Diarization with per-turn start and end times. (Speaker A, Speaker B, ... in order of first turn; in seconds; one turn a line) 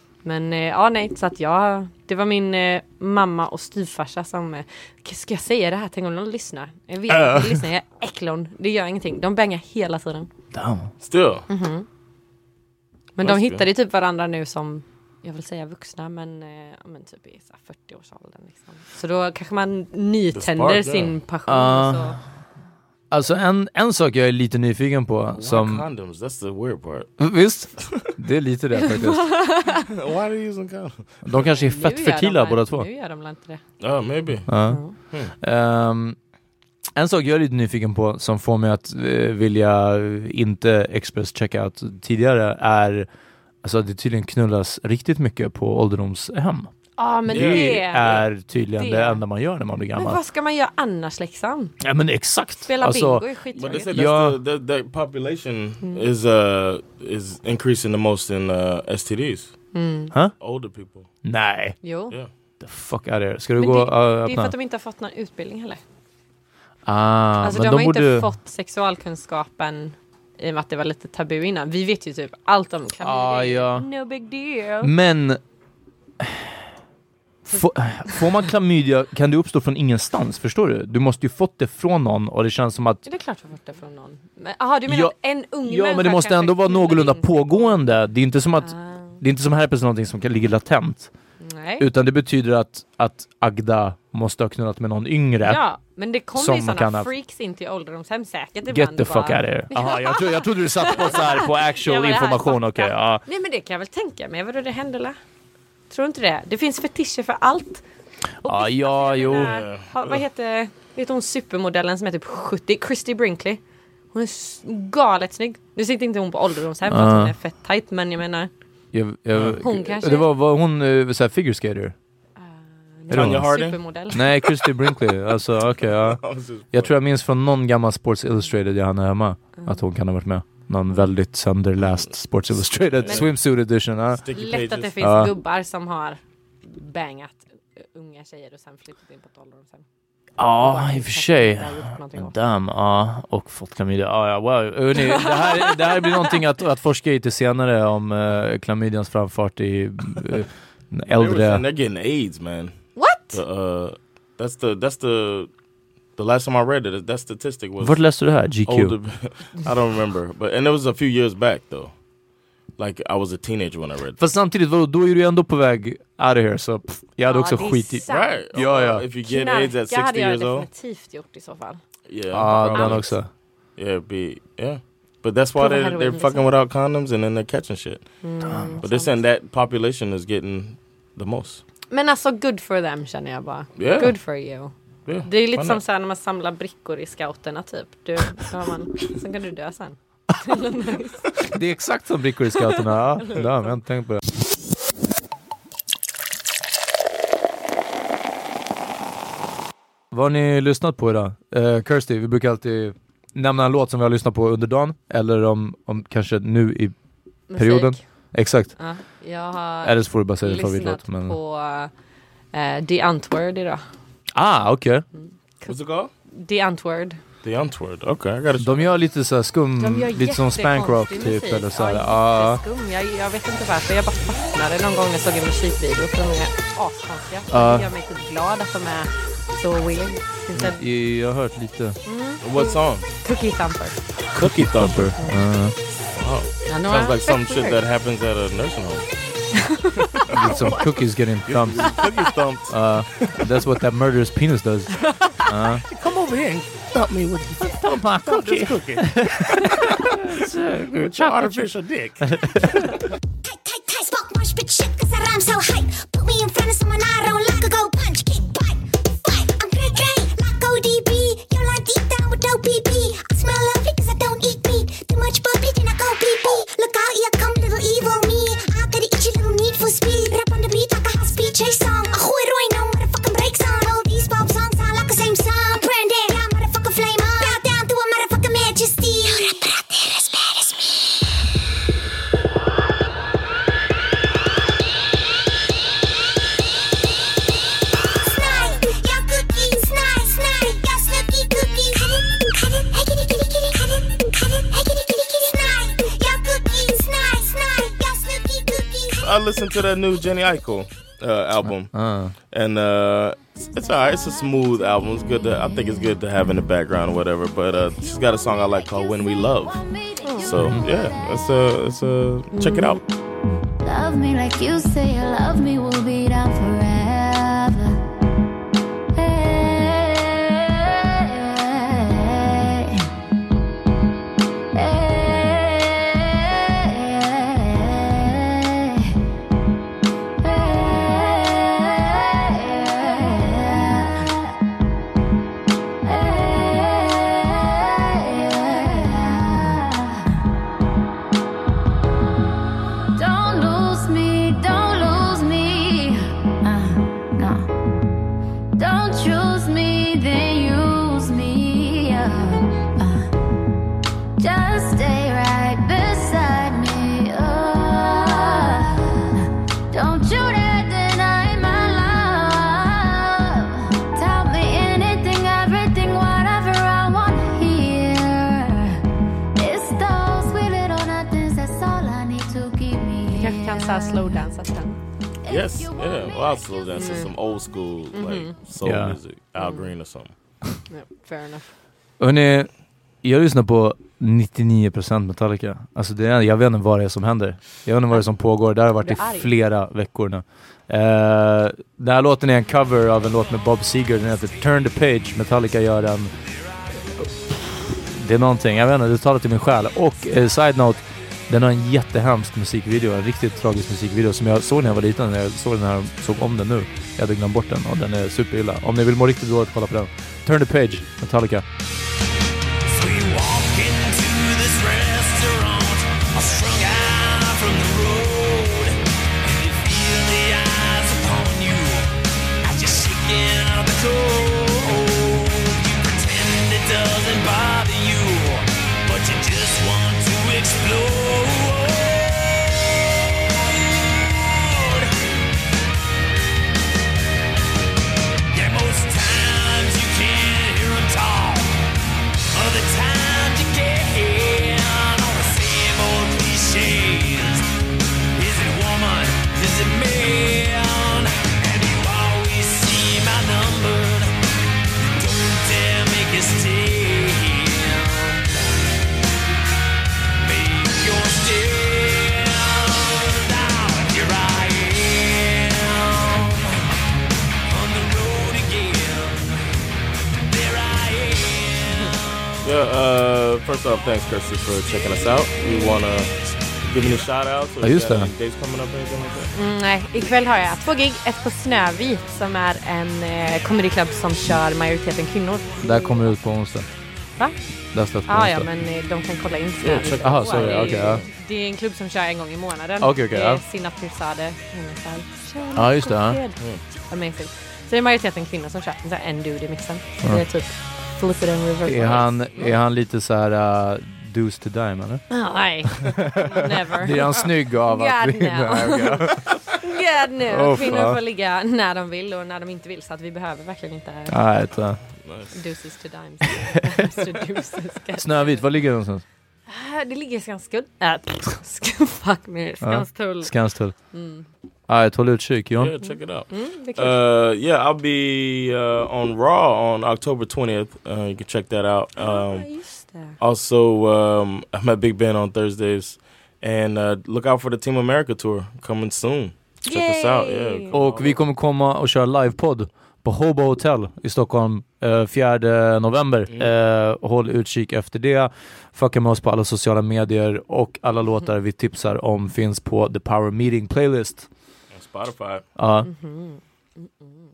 Speaker A: 0.2-10.3
Speaker B: 7.1-7.5
Speaker C: 10.5-10.9
Speaker B: 11.0-11.5
Speaker A: 11.5-11.9
Speaker A: 13.2-22.2
Speaker B: 13.2-13.6
Speaker B: 20.3-21.1
Speaker C: 21.5-22.2
Speaker C: 23.1-25.8
Speaker B: 25.4-27.2
Speaker C: 27.2-29.3
Speaker B: 27.8-28.1
Speaker A: 28.8-29.9
Speaker B: 29.8-31.2
Speaker C: 31.2-32.9
Speaker A: 31.3-33.6
Speaker B: 33.8-34.5
Speaker C: 34.5-36.2
Speaker A: 34.6-35.0
Speaker C: 37.0-43.1
Speaker C: 43.6-46.7
Speaker A: 47.0-49.2
Speaker C: 47.3-50.2
Speaker B: 47.3-48.2
Speaker A: 50.0-51.7
Speaker C: 51.8-53.2
Speaker A: 52.6-53.9
Speaker B: 53.5-59.7
Speaker C: 53.9-54.4
Speaker A: 59.7-60.1
Speaker B: 60.4-61.1
Speaker C: 61.2-61.8
Speaker A: 61.8-62.1
Speaker C: 62.6-64.5
Speaker A: 63.6-65.8
Speaker C: 66.9-68.3
Speaker A: 67.4-74.9
Speaker C: 73.0-73.9
Speaker C: 74.8-75.4
Speaker C: 76.2-76.5
Speaker C: 77.5-83.0
Speaker A: 77.5-78.2
Speaker A: 83.0-87.7
Speaker C: 84.9-91.1
Speaker A: 88.6-89.2
Speaker A: 91.4-91.9
Speaker C: 91.8-95.6
Speaker A: 95.4-105.2
Speaker C: 96.3-97.1
Speaker C: 98.7-103.2
Speaker A: 105.9-107.8
Speaker C: 108.4-109.5
Speaker A: 108.4-113.6
Speaker B: 109.2-110.2
Speaker A: 114.1-118.5
Speaker C: 116.9-117.3
Speaker C: 118.9-122.0
Speaker A: 119.6-120.3
Speaker A: 122.4-124.3
Speaker C: 123.1-123.5
Speaker B: 123.1-123.8
Speaker C: 124.1-134.2
Speaker B: 125.8-126.9
Speaker B: 132.8-133.3
Speaker B: 134.2-134.9
Speaker A: 134.3-139.8
Speaker C: 135.0-135.3
Speaker C: 140.4-151.6
Speaker A: 140.6-142.3
Speaker A: 144.9-146.3
Speaker B: 151.1-155.5
Speaker A: 152.9-153.4
Speaker B: 156.2-158.0
Speaker C: 157.8-158.9
Speaker B: 158.7-161.9
Speaker B: 162.8-164.2
Speaker C: 164.2-169.1
Speaker A: 167.2-168.4
Speaker B: 168.1-170.7
Speaker A: 169.2-171.8
Speaker B: 172.1-173.1
Speaker C: 172.3-173.3
Speaker A: 172.7-173.1
Speaker B: 173.8-178.2
Speaker A: 175.6-176.5
Speaker A: 178.2-179.2
Speaker C: 178.4-178.8
Speaker B: 178.8-181.6
Speaker A: 181.9-184.7
Speaker B: 183.8-184.1
Speaker B: 185.1-185.8
Speaker A: 185.2-191.3
Speaker C: 191.5-194.2
Speaker A: 192.8-193.4
Speaker C: 200.1-206.9
Speaker A: 207.5-208.0
Speaker C: 207.6-208.8
Speaker A: 208.8-211.9
Speaker C: 209.8-211.4
Speaker A: 212.5-213.8
Speaker C: 214.4-215.1
Speaker A: 215.1-215.8
Speaker B: 215.7-216.1
Speaker A: 216.4-217.2
Speaker B: 217.4-218.9
Speaker C: 218.6-222.6
Speaker A: 219.8-230.8
Speaker C: 227.5-227.9
Speaker C: 230.8-232.0
Speaker A: 232.1-234.0
Speaker B: 232.4-233.1
Speaker C: 234.3-235.7
Speaker B: 234.3-235.1
Speaker B: 236.1-239.1
Speaker A: 236.7-237.8
Speaker A: 239.5-241.0
Speaker C: 240.3-242.0
Speaker B: 240.3-240.6
Speaker B: 241.5-243.3
Speaker C: 242.7-245.8
Speaker A: 245.0-245.5
Speaker B: 245.9-250.1
Speaker C: 247.6-251.6
Speaker B: 250.9-252.9
Speaker C: 252.2-252.7
Speaker D: 253.4-281.2
Speaker D: 287.9-299.2
Speaker B: 299.2-301.9
Speaker C: 301.6-302.3
Speaker B: 302.5-309.8
Speaker E: 308.0-311.2
Speaker A: 310.2-310.5
Speaker B: 310.4-313.0
Speaker A: 312.6-313.0
Speaker E: 313.8-318.0
Speaker E: 319.1-323.1
Speaker E: 324.7-329.0
Speaker E: 330.4-334.3
Speaker E: 336.0-340.2
Speaker E: 343.1-347.7
Speaker E: 348.8-353.3
Speaker E: 354.4-369.0
Speaker E: 369.6-374.4
Speaker A: 373.3-375.0
Speaker E: 375.4-377.2
Speaker B: 375.5-380.3
Speaker A: 377.0-377.3
Speaker A: 378.1-378.6
Speaker C: 378.8-379.1
Speaker A: 379.6-379.9
Speaker A: 380.9-381.7
Speaker C: 382.2-382.7
Speaker C: 383.2-396.3
Speaker A: 389.0-389.5
Speaker C: 397.2-411.6
Speaker F: 412.9-422.1
Speaker F: 422.6-435.1
Speaker F: 438.5-441.8
Speaker F: 442.5-447.6
Speaker F: 448.3-454.3
Speaker F: 455.0-458.5
Speaker F: 460.4-466.8
Speaker F: 467.7-469.8
Speaker F: 470.4-472.1
Speaker B: 472.6-476.3
Speaker A: 475.6-476.0
Speaker B: 476.9-479.5
Speaker C: 477.8-478.3
Speaker A: 479.5-486.3
Speaker C: 485.8-486.9
Speaker C: 487.9-488.7
Speaker A: 488.3-502.8
Speaker B: 489.8-491.2
Speaker C: 490.2-491.2
Speaker C: 493.0-493.6
Speaker C: 495.7-496.4
Speaker C: 501.8-509.5
Speaker A: 505.3-514.4
Speaker C: 510.4-511.2
Speaker C: 514.3-515.0
Speaker B: 515.2-515.6
Speaker A: 515.5-518.7
Speaker C: 518.2-519.2
Speaker A: 519.7-524.5
Speaker C: 522.8-524.0
Speaker C: 524.9-525.9
Speaker B: 525.8-532.7
Speaker A: 526.0-527.2
Speaker A: 532.2-533.4
Speaker B: 533.4-541.4
Speaker A: 539.9-541.0
Speaker C: 540.9-554.5
Speaker B: 554.9-555.6
Speaker C: 555.8-556.1
Speaker A: 556.0-557.5